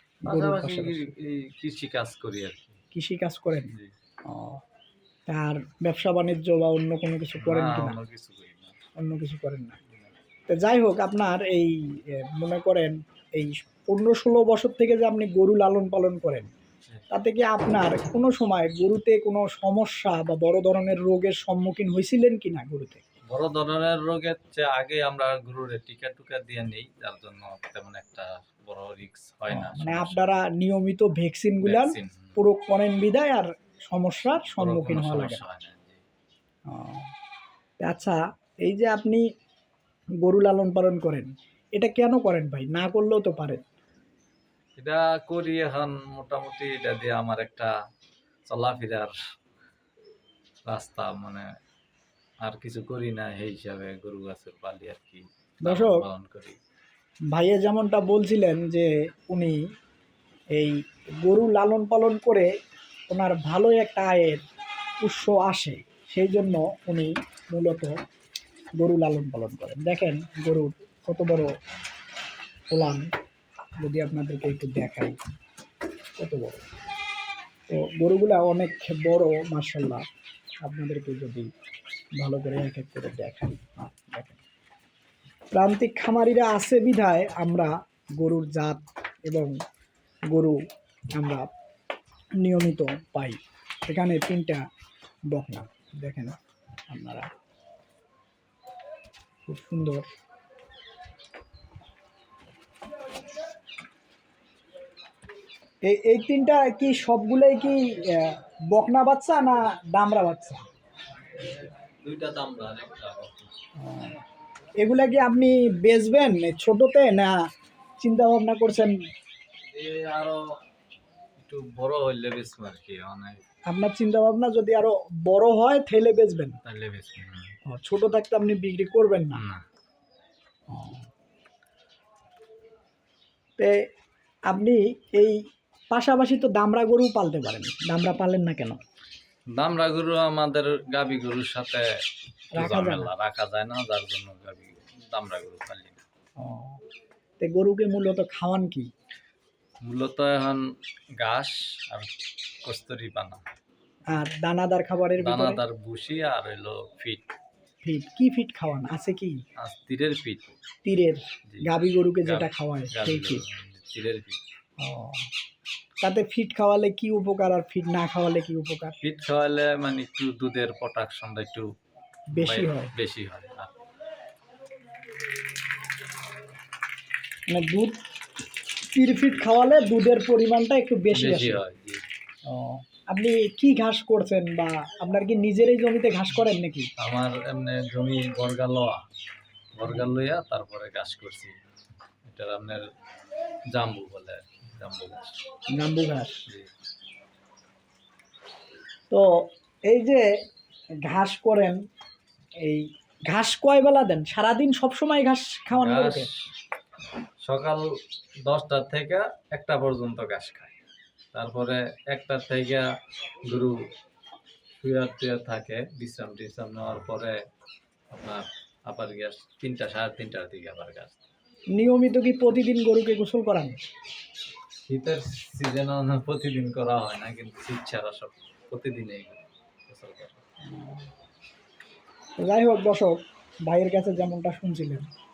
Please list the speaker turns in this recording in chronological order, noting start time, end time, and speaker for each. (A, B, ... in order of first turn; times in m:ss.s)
0:00.2-0:01.1 A
0:00.3-0:02.8 B
0:02.9-0:03.8 A
0:04.3-0:04.6 A
0:05.3-0:08.0 A
0:07.4-0:08.8 B
0:09.0-0:09.8 A
0:10.5-0:16.5 A
0:17.1-0:23.0 A
0:23.3-0:30.4 B
0:29.5-0:35.4 A
0:31.6-0:32.4 B
0:34.5-0:36.0 B
0:36.7-0:37.1 A
0:37.8-0:39.2 A
0:40.3-0:43.6 A
0:44.8-0:47.7 B
0:48.5-0:49.2 B
0:50.7-0:51.5 B
0:52.4-0:56.6 B
0:55.6-0:56.0 A
0:57.3-0:59.6 A
1:00.6-1:02.5 A
1:03.1-1:04.4 A
1:05.0-1:07.9 A
1:08.8-1:11.5 A
1:12.7-1:13.1 A
1:13.8-1:15.2 A
1:16.2-1:16.7 A
1:17.7-1:20.0 A
1:20.6-1:21.5 A
1:22.2-1:24.4 A
1:25.5-1:29.5 A
1:30.3-1:30.6 A
1:31.2-1:31.5 A
1:32.4-1:34.6 A
1:35.3-1:36.4 A
1:36.9-1:37.3 A
1:39.5-1:40.1 A
1:45.8-1:50.6 A
1:51.4-1:53.5 B
1:53.8-1:54.2 A
1:54.8-1:57.4 A
1:58.0-1:59.0 A
1:59.7-2:00.4 B
2:01.4-2:03.4 B
2:03.7-2:06.6 A
2:06.6-2:07.5 B
2:07.7-2:09.4 A
2:09.4-2:09.6 B
2:10.7-2:11.1 A
2:14.5-2:15.4 A
2:15.9-2:18.8 A
2:19.6-2:21.8 B
2:22.5-2:26.0 B
2:22.6-2:23.1 A
2:26.4-2:26.8 A
2:27.4-2:28.9 A
2:29.8-2:30.6 B
2:31.2-2:32.1 B
2:32.6-2:33.4 B
2:34.1-2:35.6 A
2:35.2-2:37.3 B
2:37.8-2:39.4 A
2:39.6-2:40.6 B
2:40.8-2:43.4 A
2:42.2-2:44.4 B
2:44.8-2:45.3 A
2:46.0-2:49.0 A
2:49.0-2:51.7 B
2:52.3-2:52.9 A
2:52.4-2:53.8 B
2:57.5-2:58.0 A
2:59.0-3:01.6 A
3:01.1-3:02.0 B
3:02.5-3:06.9 A
3:07.0-3:09.0 B
3:09.8-3:11.5 B
3:12.3-3:12.8 B
3:13.7-3:15.4 B
3:15.8-3:16.4 A
3:19.9-3:20.2 A
3:21.1-3:21.8 A
3:22.7-3:26.3 A
3:25.7-3:26.3 B
3:27.4-3:27.8 B
3:28.5-3:30.8 B
3:31.3-3:32.8 B
3:33.5-3:33.8 B
3:34.8-3:37.3 B
3:38.1-3:41.3 B
3:41.8-3:43.8 A
3:44.9-3:50.4 B
3:50.7-3:51.1 A
3:52.4-3:55.1 A